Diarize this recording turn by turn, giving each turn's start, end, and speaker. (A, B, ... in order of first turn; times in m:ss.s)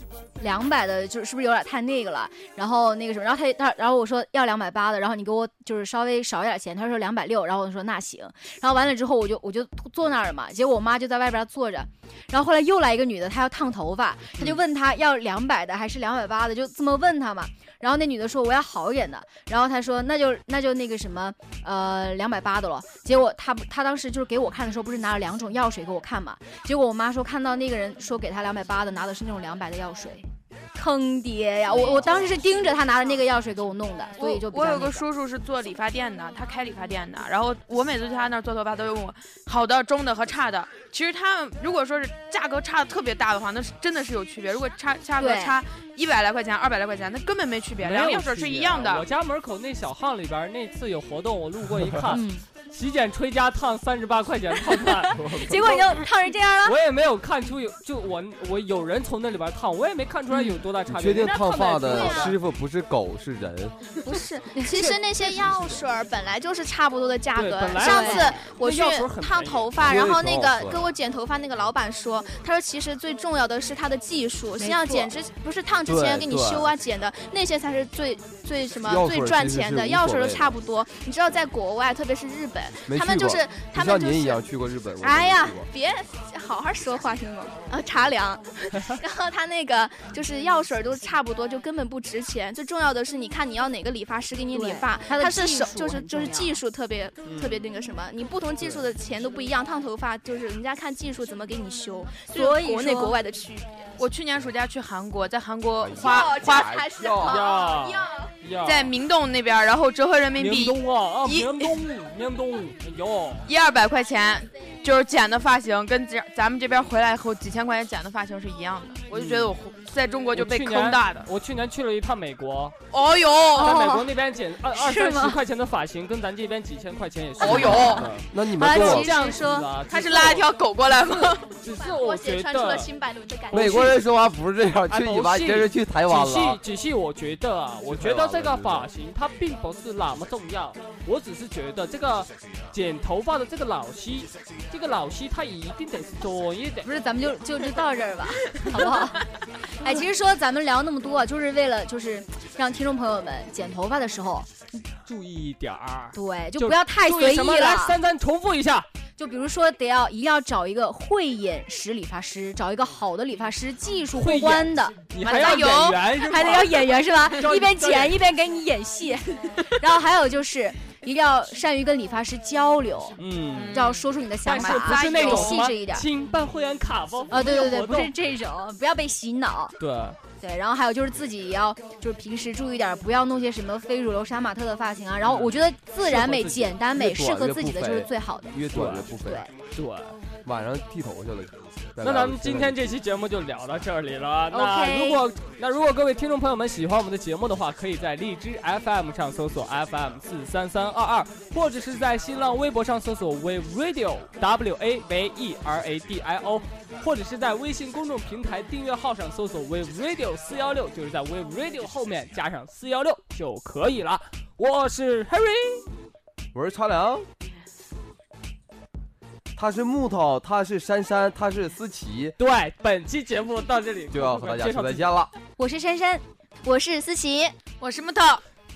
0:00.4-0:35.0 A
0:31.7-0:32.2 B
0:34.2-0:49.0 B
0:45.2-0:45.6 A
0:47.8-0:55.8 C
0:52.1-0:52.4 A
0:55.2-0:56.8 A
0:56.6-1:02.4 C
1:00.3-1:00.6 A
1:00.9-1:03.7 D
1:01.8-1:02.4 E
1:04.0-1:24.4 E
1:04.1-1:04.8 A
1:04.7-1:05.8 C
1:07.3-1:09.7 C
1:07.8-1:08.4 A
1:09.8-1:10.9 D
1:14.6-1:15.1 A
1:15.8-1:16.7 D
1:18.8-1:20.6 D
1:22.9-1:25.7 D
1:25.0-1:43.8 E
1:34.5-1:36.6 A
1:37.3-1:37.6 C
1:42.3-1:43.2 A
1:44.0-1:46.8 B
1:45.8-1:47.4 D
1:45.9-1:48.3 E
1:47.2-1:48.9 C
1:48.6-1:51.8 B
1:50.4-1:53.5 C
1:53.4-2:01.3 B
1:59.1-1:59.6 C
2:00.3-2:02.8 C
2:02.9-2:03.8 B
2:03.5-2:10.5 C
2:03.6-2:04.1 A
2:04.7-2:05.4 A
2:07.4-2:08.1 B
2:07.4-2:09.7 A
2:07.4-2:09.2 D
2:09.9-2:11.5 B
2:11.4-2:12.9 C
2:11.7-2:14.0 E
2:13.5-2:14.0 C
2:13.5-2:16.6 D
2:14.9-2:26.9 C
2:17.9-2:18.9 D
2:26.8-2:34.5 A
2:34.7-2:38.8 C
2:36.1-2:38.0 A
2:39.2-2:45.6 A
2:44.1-2:48.2 C
2:45.2-2:46.6 B
2:46.2-2:53.2 A
2:53.2-2:53.9 C
2:53.5-2:55.7 B
2:53.7-2:56.1 A
2:54.4-2:58.1 C
2:57.3-2:59.8 A
2:59.8-3:00.2 C
3:00.4-3:08.6 A
3:05.2-3:06.8 C
3:06.9-3:09.5 D
3:08.6-3:09.1 C
3:09.2-3:09.5 A
3:09.7-3:10.1 C
3:10.4-3:12.9 D
3:12.0-3:35.9 C
3:14.5-3:15.2 A
3:36.5-3:37.2 D
3:39.5-3:42.4 D
3:42.4-3:45.1 C
3:44.1-3:45.3 D
3:45.6-3:46.2 A
3:46.6-3:47.5 E
3:47.8-3:48.4 B